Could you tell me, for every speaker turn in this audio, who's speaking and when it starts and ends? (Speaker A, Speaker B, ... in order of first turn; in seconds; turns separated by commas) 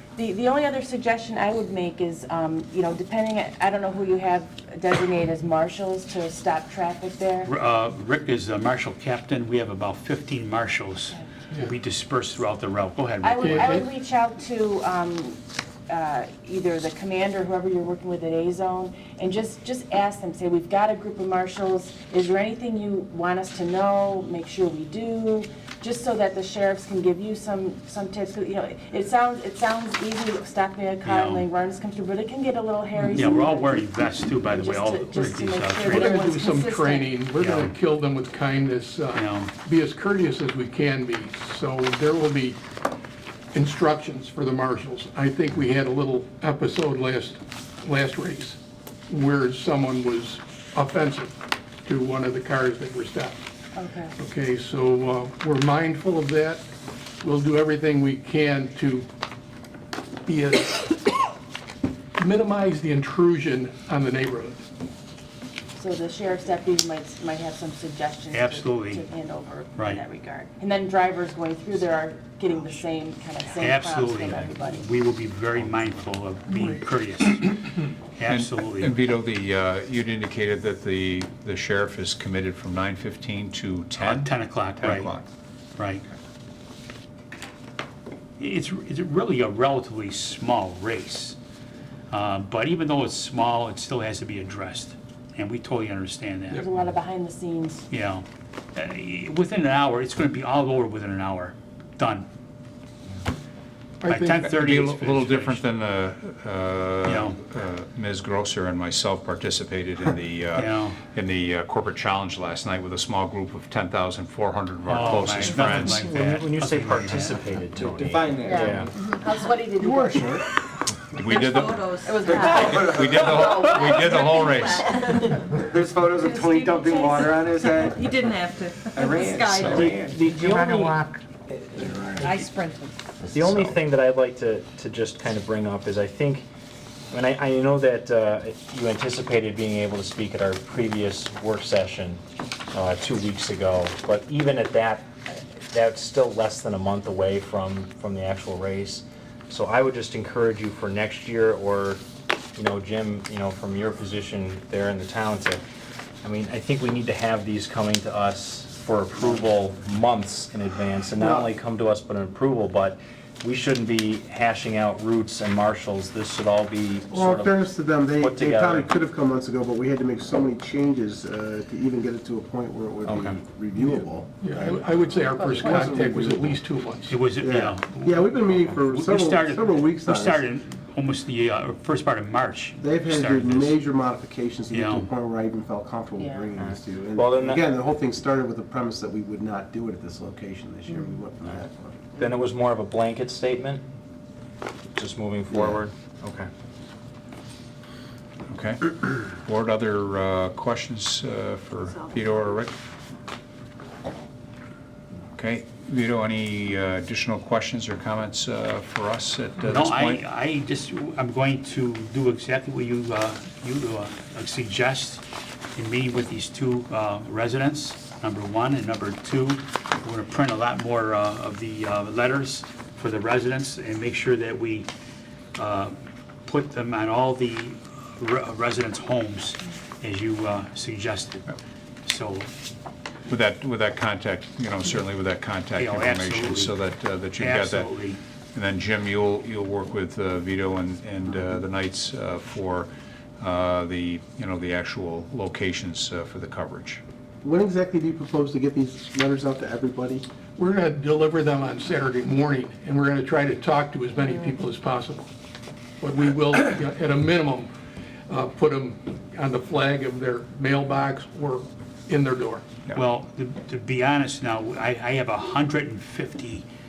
Speaker A: 0.2-7.5, Speaker B: 7.5-13.8, Speaker A: 13.2-37.2, Speaker C: 13.4-13.9, Speaker B: 31.0-31.5, Speaker B: 33.1-36.0, Speaker C: 35.9-42.6, Speaker B: 37.4-37.8, Speaker B: 39.1-39.5, Speaker C: 43.5-48.6, Speaker C: 49.1-53.4, Speaker A: 53.8-54.2, Speaker C: 54.2-56.6, Speaker C: 57.2-59.1, Speaker C: 60.3-61.2, Speaker C: 62.2-64.6, Speaker A: 65.8-74.9, Speaker B: 68.3-69.0, Speaker B: 69.8-70.0, Speaker B: 73.6-79.0, Speaker D: 78.3-85.2, Speaker B: 84.0-85.1, Speaker B: 85.8-86.0, Speaker B: 88.4-91.4, Speaker B: 92.1-96.6, Speaker A: 96.5-97.9, Speaker B: 97.9-102.3, Speaker C: 104.0-104.5, Speaker B: 104.1-105.6, Speaker D: 104.5-116.1, Speaker B: 107.0-107.4, Speaker B: 110.5-111.0, Speaker B: 114.9-117.5, Speaker E: 115.5-118.9, Speaker F: 117.8-119.1, Speaker A: 118.4-120.5, Speaker G: 119.8-120.4, Speaker D: 121.2-125.0, Speaker H: 121.2-122.1, Speaker A: 122.0-122.8, Speaker F: 122.1-124.0, Speaker H: 124.0-125.2, Speaker F: 124.5-130.4, Speaker A: 126.2-127.4, Speaker H: 128.1-129.7, Speaker E: 129.6-132.4, Speaker G: 131.8-132.3, Speaker F: 132.1-132.5, Speaker H: 132.2-133.0, Speaker F: 133.2-133.6, Speaker E: 133.3-136.5, Speaker E: 137.1-142.2, Speaker E: 142.7-152.0, Speaker E: 152.6-155.6, Speaker E: 156.2-167.6, Speaker G: 161.2-161.5, Speaker G: 167.1-176.6, Speaker E: 168.2-168.9, Speaker C: 173.8-177.2, Speaker A: 175.3-176.1, Speaker B: 177.1-183.8, Speaker G: 177.3-180.5, Speaker G: 182.8-192.1, Speaker B: 184.7-185.1, Speaker A: 186.2-186.5, Speaker E: 186.6-187.7, Speaker E: 192.2-193.8, Speaker E: 194.9-196.5, Speaker G: 195.5-195.8, Speaker D: 198.5-202.7, Speaker D: 205.4-210.2, Speaker B: 209.6-215.2, Speaker B: 215.8-224.9, Speaker B: 225.6-225.9, Speaker B: 226.5-232.5, Speaker D: 233.3-238.0, Speaker B: 235.8-236.8, Speaker B: 237.4-238.2, Speaker D: 238.5-247.0, Speaker G: 247.4-250.3, Speaker C: 250.6-255.3, Speaker C: 256.0-257.7, Speaker C: 258.3-262.6, Speaker B: 262.9-266.7